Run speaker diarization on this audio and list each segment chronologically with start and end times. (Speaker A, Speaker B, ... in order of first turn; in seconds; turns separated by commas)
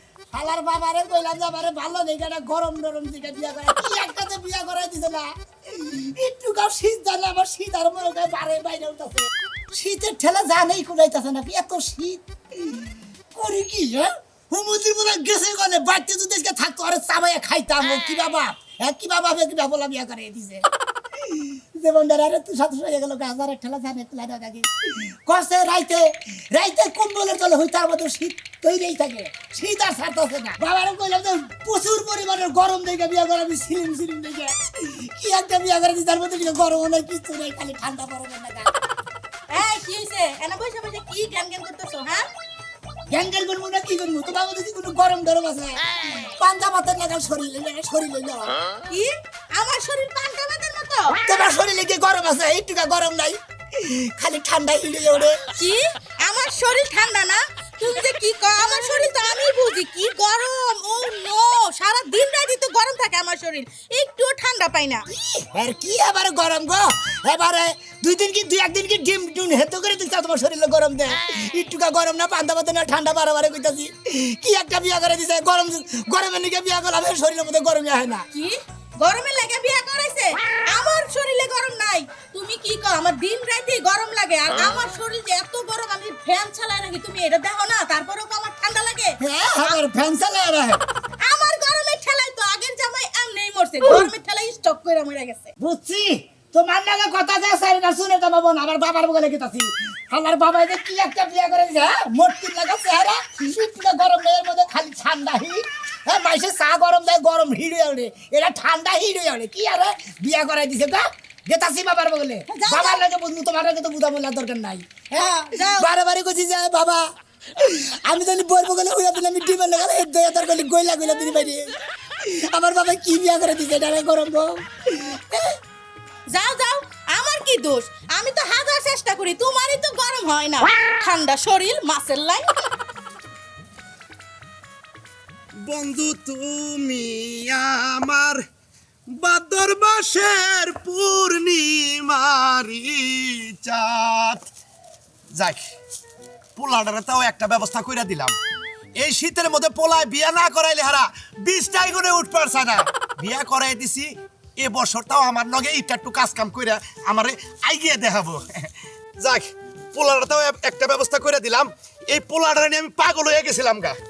Speaker A: 0.3-20.7, Speaker A: 21.3-38.7, Speaker B: 39.5-42.3, Speaker A: 43.1-45.8, Speaker A: 46.4-48.6, Speaker B: 48.9-51.2, Speaker A: 51.2-55.4, Speaker B: 55.6-65.1, Speaker A: 65.1-78.3, Speaker B: 78.3-89.8, Speaker A: 89.2-90.8, Speaker B: 91.2-95.5, Speaker A: 95.6-117.1, Speaker B: 112.5-113.0, Speaker B: 115.1-115.9, Speaker A: 117.6-125.6, Speaker B: 126.3-132.7, Speaker C: 135.6-138.4, Speaker C: 139.1-144.5, Speaker C: 145.3-145.6, Speaker C: 146.6-148.4, Speaker C: 149.0-164.0